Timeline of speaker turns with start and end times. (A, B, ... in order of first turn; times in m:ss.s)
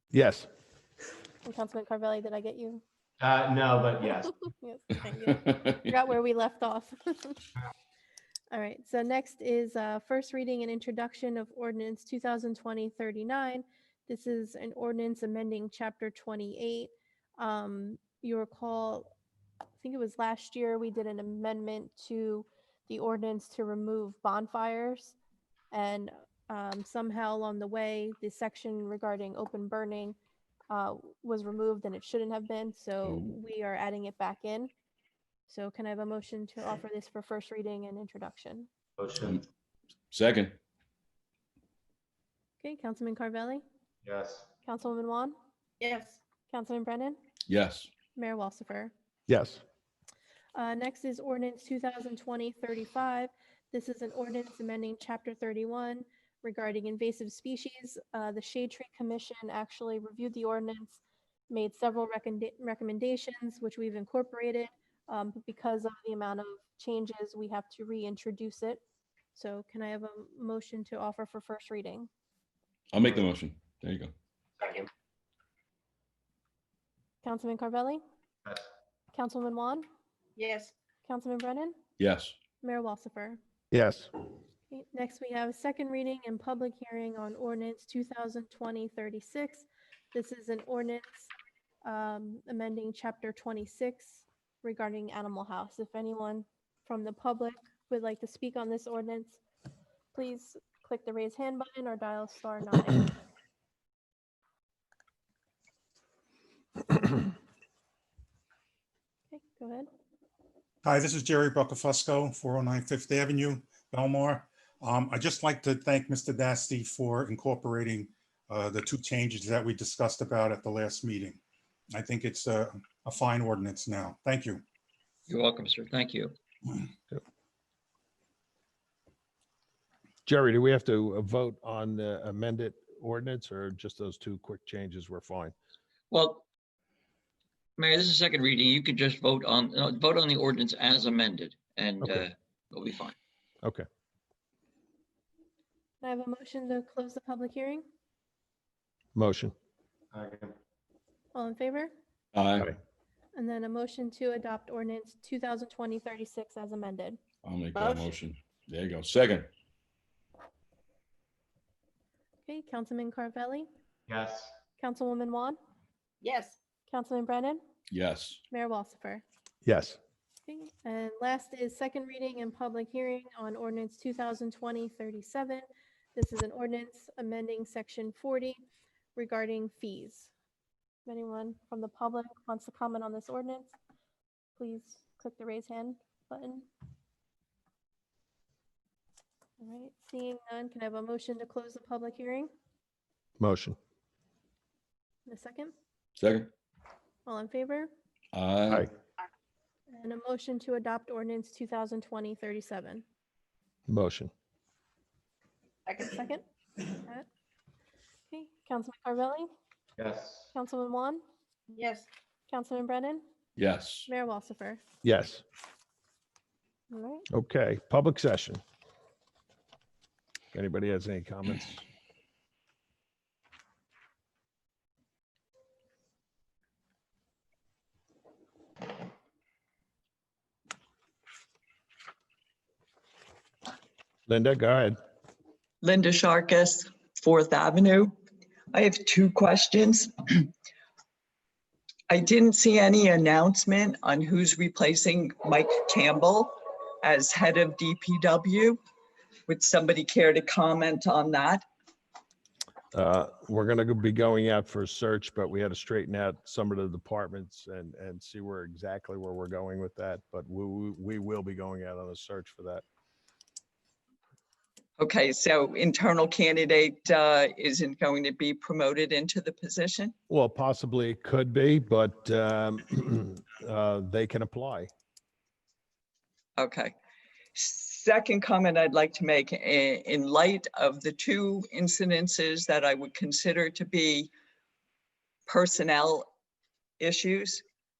0:00.1-0:00.5 A
0:01.4-0:02.8 B
0:03.2-0:04.3 C
0:04.6-0:07.4 B
0:05.3-0:05.8 D
0:08.5-0:19.1 B
0:19.8-0:25.2 B
0:25.7-0:30.2 B
0:30.7-0:34.7 B
0:33.0-0:33.3 D
0:35.5-0:38.7 B
0:39.0-0:39.4 C
0:40.1-0:40.6 D
0:42.6-0:43.6 B
0:44.0-0:44.4 C
0:44.6-0:45.3 B
0:45.8-0:46.2 E
0:46.5-0:47.2 B
0:47.5-0:47.9 D
0:48.2-0:48.9 B
0:49.3-0:49.6 A
0:50.6-1:08.8 B
1:09.3-1:12.1 B
1:12.9-1:14.1 D
1:17.2-1:18.0 B
1:19.1-1:19.8 B
1:20.4-1:20.7 E
1:21.0-1:21.7 B
1:22.0-1:22.3 D
1:22.6-1:23.4 B
1:23.7-1:24.1 A
1:24.7-1:31.3 B
1:31.8-1:39.4 B
1:40.1-1:43.1 B
1:49.3-1:49.9 B
1:50.8-2:01.4 F
2:01.9-2:04.6 F
2:05.3-2:06.4 G
2:10.2-2:15.5 A
2:16.1-2:16.4 G
2:17.8-2:23.1 G
2:26.0-2:27.8 B
2:29.1-2:29.5 A
2:30.1-2:30.5 C
2:31.3-2:31.9 B
2:32.3-2:32.7 D
2:33.4-2:37.2 B
2:37.4-2:39.5 D
2:37.7-2:38.1 E
2:42.4-2:43.7 B
2:44.1-2:44.5 C
2:44.8-2:45.6 B
2:46.2-2:46.6 E
2:46.9-2:47.6 B
2:47.9-2:48.4 D
2:48.5-2:49.2 B
2:49.6-2:50.0 A
2:50.4-2:58.6 B
2:59.2-3:00.3 B
3:01.0-3:03.7 B
3:04.6-3:06.7 B
3:09.6-3:12.5 B
3:13.4-3:13.8 A
3:15.3-3:15.7 B
3:16.2-3:16.5 D
3:17.2-3:17.9 B
3:18.3-3:18.9 D
3:19.9-3:23.0 B
3:23.9-3:24.3 A
3:25.8-3:26.2 E
3:26.1-3:27.2 B
3:28.3-3:29.5 B
3:30.0-3:30.5 C
3:30.5-3:31.2 B
3:31.7-3:32.1 E
3:32.5-3:33.2 B
3:33.6-3:34.1 D
3:34.1-3:34.8 B
3:35.0-3:35.4 A
3:36.9-3:37.2 B
3:37.3-3:38.6 A
3:40.5-3:41.8 A
3:54.3-3:55.0 A
3:55.8-3:58.1 H
3:58.7-4:00.5 H
4:02.1-4:08.8 H
4:09.5-4:11.6 H
4:12.9-4:22.8 A
4:25.0-4:30.1 H
4:30.3-4:34.9 A
4:36.6-4:36.9 H
4:37.5-4:44.3 H
4:45.5-4:46.3 H
4:47.0-4:47.6 H